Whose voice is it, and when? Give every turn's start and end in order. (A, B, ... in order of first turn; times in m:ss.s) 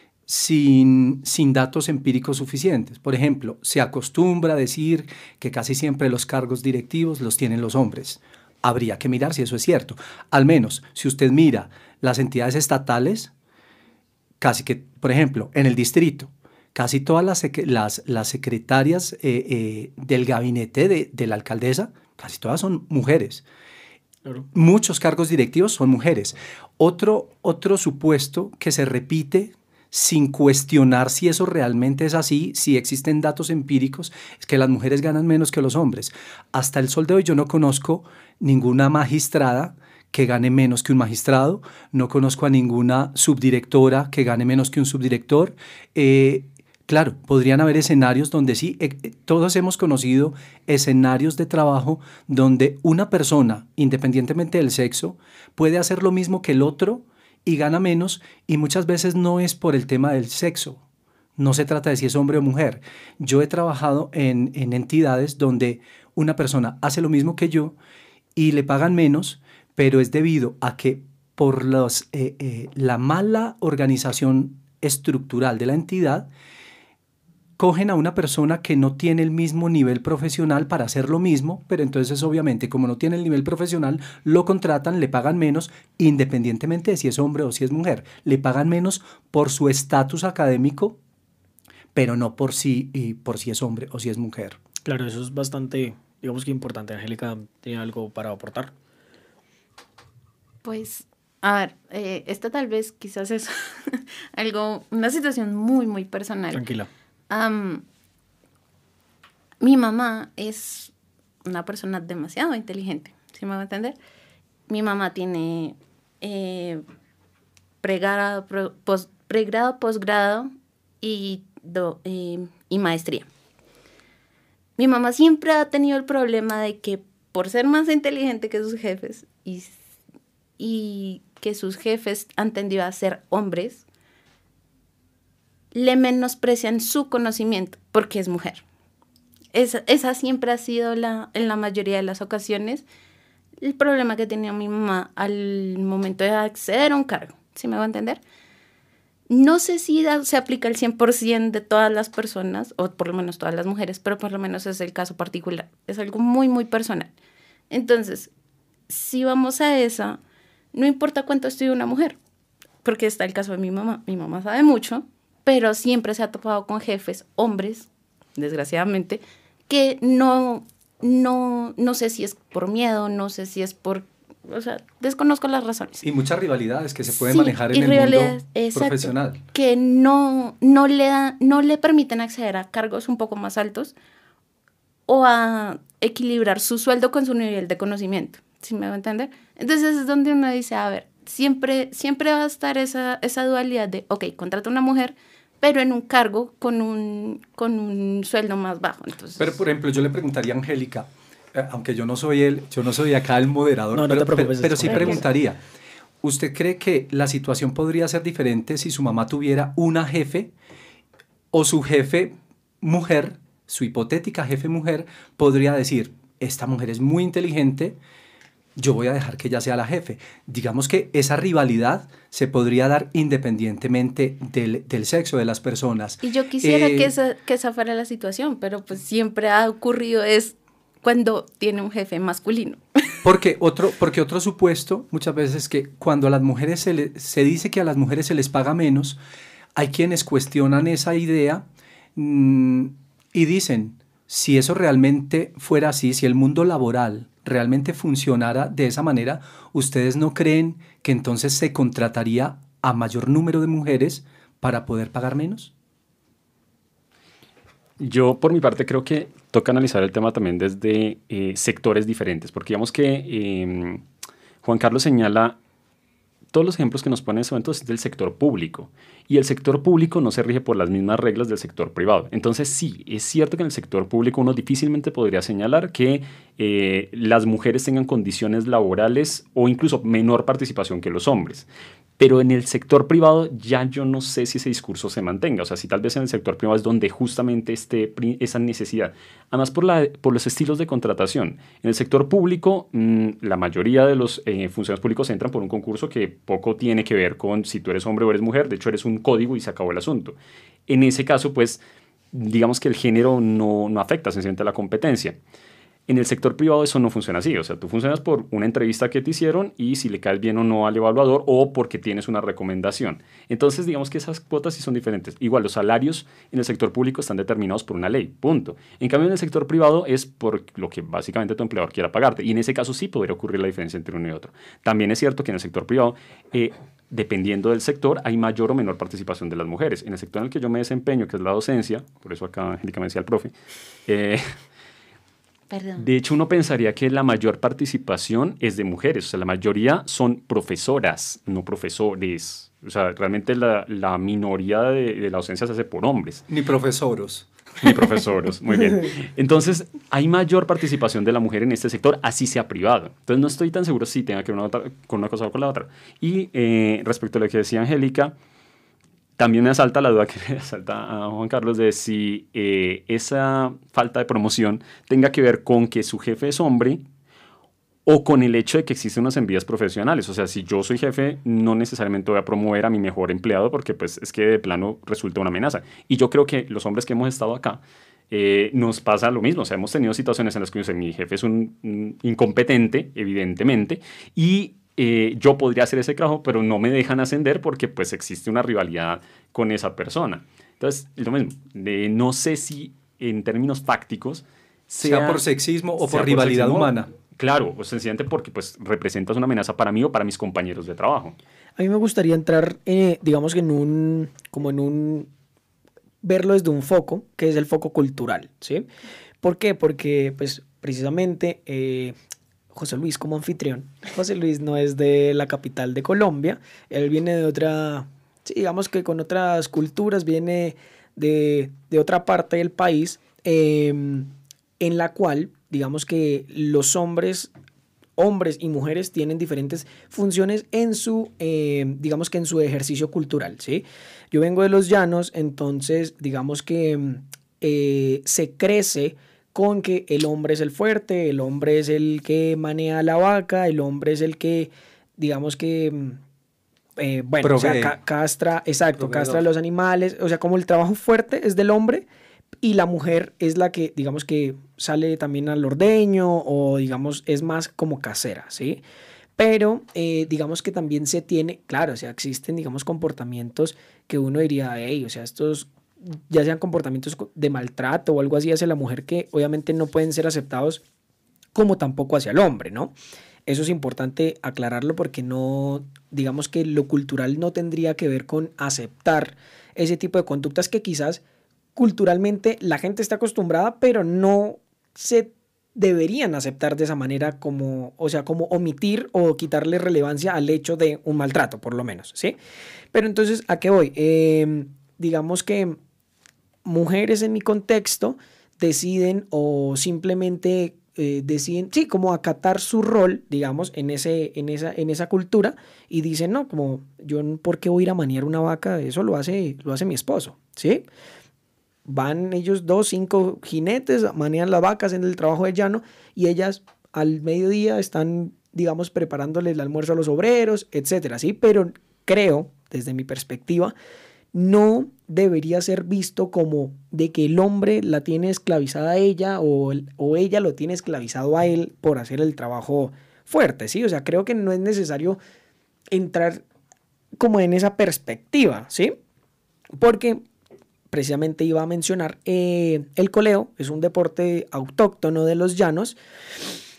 0:00.3-0:13.3 A
0:14.4-0:23.4 A
0:24.5-1:00.8 A
1:01.4-1:07.8 A
1:08.4-1:16.3 A
1:17.6-1:31.0 A
1:31.9-1:34.6 A
1:34.8-1:38.7 B
1:40.6-1:46.6 C
1:46.5-1:46.9 B
1:47.3-1:47.8 C
1:49.6-1:50.9 C
1:51.4-1:54.0 C
1:54.7-1:56.8 C
1:57.8-2:03.3 C
2:04.8-2:09.8 C
2:10.6-2:13.8 C
2:15.7-2:18.6 C
2:19.5-2:22.8 C
2:23.6-2:28.2 C
2:29.3-2:37.1 C
2:37.7-2:38.3 C
2:38.9-2:40.2 C
2:40.7-2:42.2 C
2:42.8-2:56.0 C
2:56.0-2:59.4 A
2:57.1-3:03.9 C
3:05.1-3:19.5 C
3:19.4-3:25.6 A
3:23.9-3:25.2 B
3:26.2-3:30.5 A
3:31.5-3:38.0 A
3:38.8-3:47.1 A
3:46.2-3:53.2 C
3:53.2-3:59.2 A
3:59.8-4:01.6 A
4:02.2-4:15.7 A
4:18.0-4:24.0 D
4:24.6-4:25.6 D
4:26.5-4:41.7 D
4:42.2-5:01.8 D
5:02.3-5:05.4 D
5:06.1-5:33.5 D
5:34.1-5:34.4 D
5:35.7-5:36.1 C
5:36.0-5:46.4 D
5:46.5-5:47.5 A
5:47.8-5:58.3 D
5:59.4-6:07.0 D
6:08.0-6:35.4 D
6:35.0-6:37.1 A
6:36.0-6:41.4 D
6:41.8-6:45.3 B
6:46.2-6:48.9 B
6:49.4-6:52.1 B
6:52.7-7:07.5 B
7:08.2-7:26.2 B
7:27.0-7:32.1 B
7:27.4-7:28.0 A
7:29.0-7:29.4 A
7:32.6-7:38.8 B
7:39.4-7:50.8 B
7:51.5-7:52.9 B
7:53.5-8:01.2 B
8:01.8-8:12.4 B
8:12.9-8:15.8 B
8:16.6-8:30.8 B
8:31.8-8:43.7 B
8:44.3-8:55.2 B
8:55.9-8:56.4 B
8:57.2-8:58.9 B
8:59.8-9:00.2 B
9:00.9-9:06.0 B